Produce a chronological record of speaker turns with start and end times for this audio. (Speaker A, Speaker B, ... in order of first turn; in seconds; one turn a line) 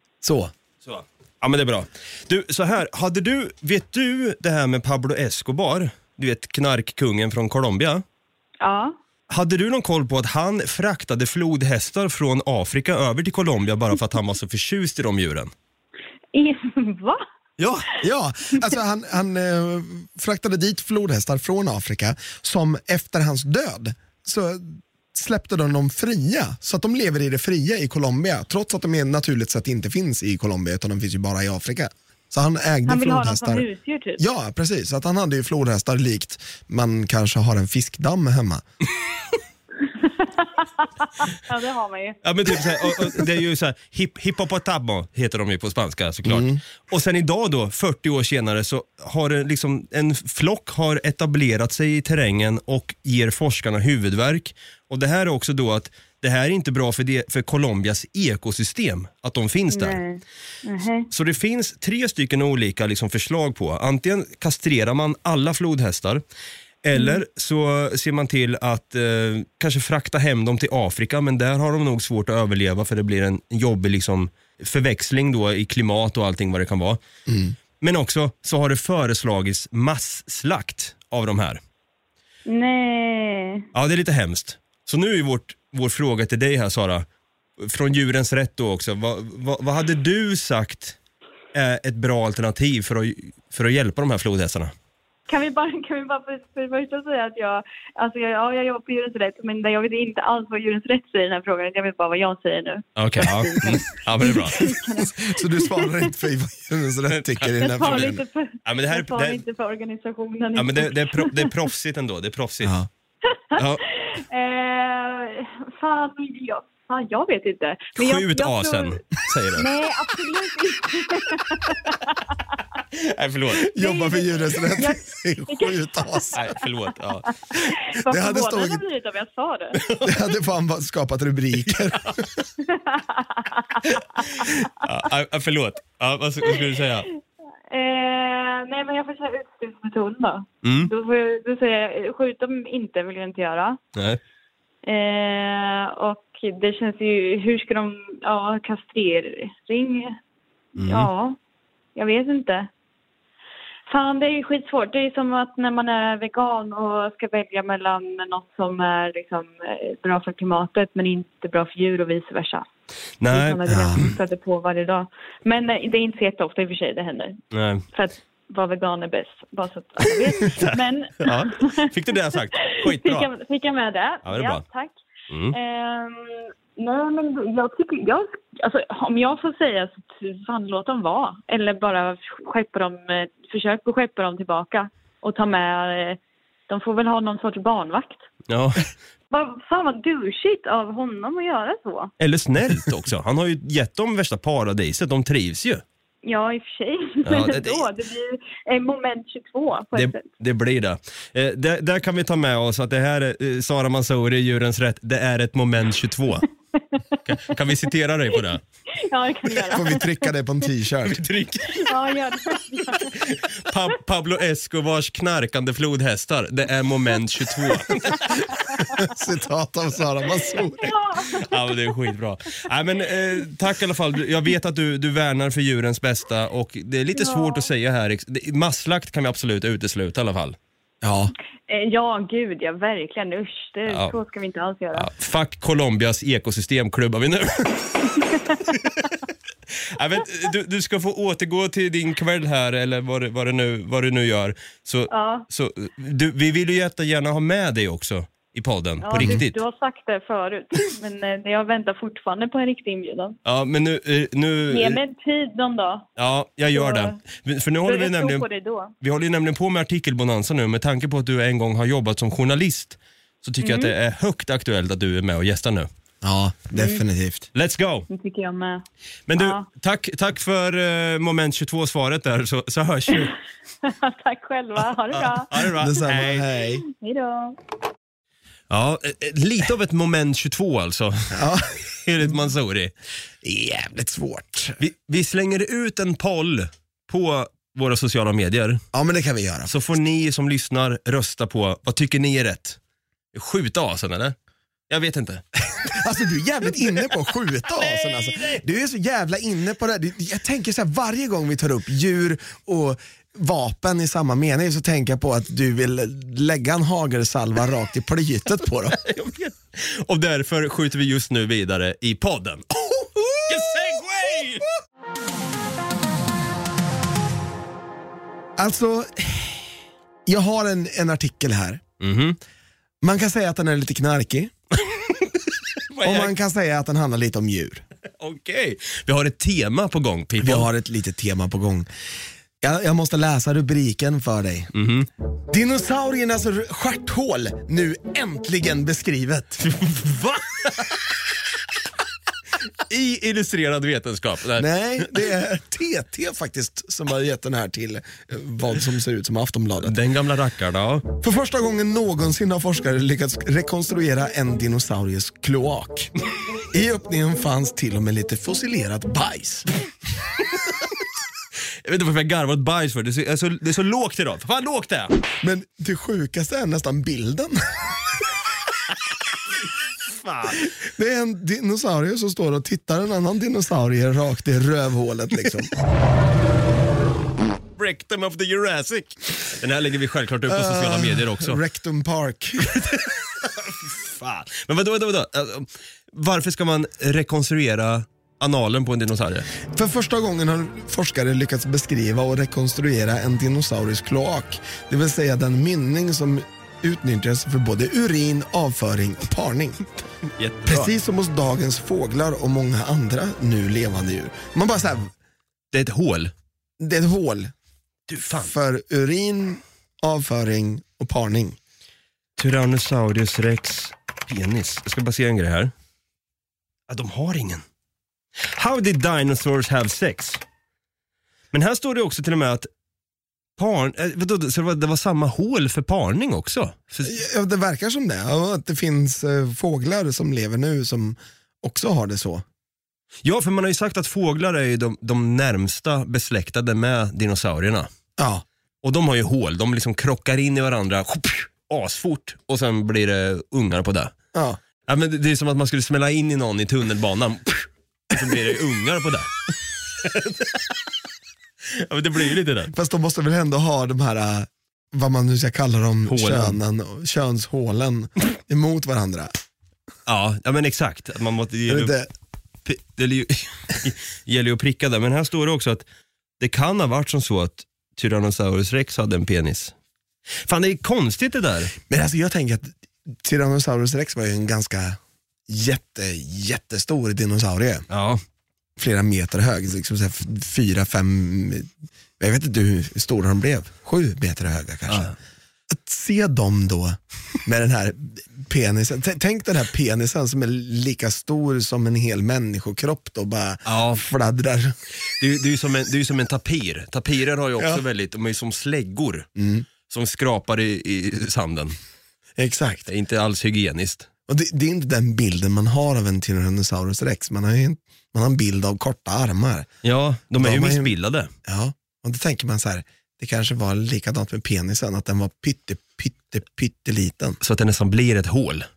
Speaker A: 0.2-0.5
Speaker B: 0.8-8.0
Speaker C: 8.6-8.9
Speaker B: 9.3-15.5
Speaker C: 16.3-17.2
Speaker B: 17.6-17.9
Speaker A: 18.0-33.6
Speaker C: 32.9-34.2
Speaker A: 34.2-38.6
Speaker C: 40.0-42.2
Speaker B: 42.2-60.0
Speaker A: 46.2-46.6
Speaker C: 59.7-61.1
Speaker B: 61.1-66.2
Speaker B: 66.8-77.0
Speaker C: 66.9-67.2
Speaker A: 77.3-77.5
Speaker B: 77.8-81.6
Speaker C: 82.5-83.6
Speaker B: 83.7-87.0
Speaker B: 87.6-91.0
Speaker B: 91.5-94.7
Speaker C: 95.3-102.9
Speaker B: 103.0-104.6
Speaker C: 103.6-106.1
Speaker A: 104.3-108.2
Speaker B: 107.1-108.1
Speaker C: 107.6-111.5
Speaker B: 108.6-109.4
Speaker B: 110.5-112.8
Speaker A: 112.6-112.9
Speaker C: 113.5-119.0
Speaker B: 113.5-113.8
Speaker B: 118.0-119.7
Speaker C: 119.6-122.2
Speaker B: 122.9-123.7
Speaker A: 123.7-126.4
Speaker C: 123.8-126.3
Speaker B: 126.3-127.3
Speaker C: 127.5-129.8
Speaker A: 128.1-128.8
Speaker B: 129.7-130.2
Speaker A: 130.0-132.5
Speaker C: 132.7-133.9
Speaker B: 134.0-137.1
Speaker C: 137.7-143.8
Speaker B: 140.6-140.9
Speaker B: 143.9-144.2
Speaker C: 144.8-150.2
Speaker B: 150.8-151.1
Speaker C: 150.8-151.4
Speaker C: 151.9-152.7
Speaker C: 153.9-162.6
Speaker B: 163.2-164.1
Speaker C: 163.3-171.8
Speaker A: 163.7-164.0
Speaker B: 167.5-167.8
Speaker B: 170.4-173.3
Speaker C: 172.6-174.9
Speaker B: 174.2-174.6
Speaker B: 175.3-175.6
Speaker C: 175.5-188.2
Speaker B: 188.5-188.9
Speaker C: 189.3-192.1
Speaker B: 192.2-195.8
Speaker C: 196.2-200.2
Speaker B: 197.2-197.8
Speaker B: 199.9-206.4
Speaker B: 207.2-208.6
Speaker C: 208.9-210.2
Speaker A: 209.7-211.2
Speaker B: 211.1-211.9
Speaker C: 211.8-213.2
Speaker B: 212.9-219.1
Speaker A: 219.0-220.9
Speaker C: 220.7-221.4
Speaker B: 221.2-230.6
Speaker C: 227.2-227.7
Speaker A: 231.0-231.3
Speaker C: 231.7-235.1
Speaker B: 233.9-234.1
Speaker B: 234.9-238.1
Speaker B: 238.7-239.1
Speaker B: 239.9-249.6
Speaker C: 245.1-245.4
Speaker C: 249.0-253.3
Speaker B: 253.4-255.0
Speaker C: 254.7-256.1
Speaker B: 256.2-258.4
Speaker C: 256.7-257.2
Speaker C: 257.9-258.9
Speaker B: 259.0-265.9
Speaker C: 263.6-263.9
Speaker A: 266.2-267.4
Speaker C: 266.8-267.0
Speaker B: 267.5-268.1
Speaker C: 268.1-268.8
Speaker B: 269.3-273.3
Speaker C: 269.4-269.6
Speaker C: 273.8-275.8
Speaker B: 275.1-276.5
Speaker A: 275.8-276.8
Speaker C: 276.9-277.6
Speaker B: 278.7-281.4
Speaker A: 281.3-281.8
Speaker B: 281.9-282.9
Speaker A: 283.4-284.8
Speaker B: 284.8-288.8
Speaker A: 288.9-289.7
Speaker B: 289.6-292.8
Speaker B: 293.3-294.4
Speaker B: 294.9-296.0
Speaker A: 295.9-309.0
Speaker B: 297.7-298.6
Speaker B: 309.0-312.6
Speaker A: 312.7-313.9
Speaker B: 313.5-314.6
Speaker A: 318.6-319.7
Speaker A: 320.2-321.8
Speaker B: 322.0-322.4
Speaker A: 323.0-324.5
Speaker B: 324.8-326.3
Speaker A: 326.0-327.8
Speaker B: 328.2-330.7
Speaker A: 330.4-331.9
Speaker A: 332.6-334.7
Speaker B: 334.7-335.1
Speaker A: 335.5-339.6
Speaker B: 339.6-340.9
Speaker B: 342.8-345.2
Speaker A: 344.6-350.0
Speaker B: 349.8-351.0
Speaker A: 351.1-356.1
Speaker A: 356.7-359.7
Speaker B: 361.8-365.1
Speaker A: 365.4-368.0
Speaker B: 370.1-370.7
Speaker A: 370.6-375.7
Speaker B: 377.8-381.6
Speaker A: 380.5-382.8
Speaker B: 382.7-389.4
Speaker A: 389.7-399.8
Speaker B: 400.4-400.9
Speaker A: 400.6-405.1
Speaker B: 405.7-406.3
Speaker A: 406.8-407.5
Speaker B: 408.1-408.5
Speaker A: 408.4-411.6
Speaker B: 412.4-415.7
Speaker B: 416.9-417.6
Speaker B: 418.4-420.4
Speaker B: 421.5-422.7
Speaker B: 423.6-427.2
Speaker A: 427.0-432.4
Speaker B: 433.2-437.9
Speaker A: 438.2-438.4
Speaker B: 438.8-444.1
Speaker A: 444.3-444.6
Speaker B: 444.9-449.3
Speaker B: 450.0-450.6
Speaker B: 451.7-452.7
Speaker A: 452.7-459.4
Speaker B: 456.1-456.6
Speaker B: 460.1-461.9
Speaker A: 461.7-462.1
Speaker B: 462.6-465.8
Speaker B: 466.4-469.7
Speaker B: 470.4-471.7
Speaker A: 471.9-477.8
Speaker B: 477.9-478.2
Speaker A: 478.8-485.1
Speaker B: 484.9-485.1
Speaker A: 485.7-494.8
Speaker B: 493.6-494.0
Speaker B: 494.9-499.3
Speaker A: 499.4-499.7
Speaker B: 499.9-501.8
Speaker A: 502.4-502.8
Speaker B: 502.9-504.1
Speaker A: 504.3-509.7
Speaker B: 509.8-511.3
Speaker A: 510.3-510.9
Speaker A: 511.4-517.4
Speaker B: 517.4-518.6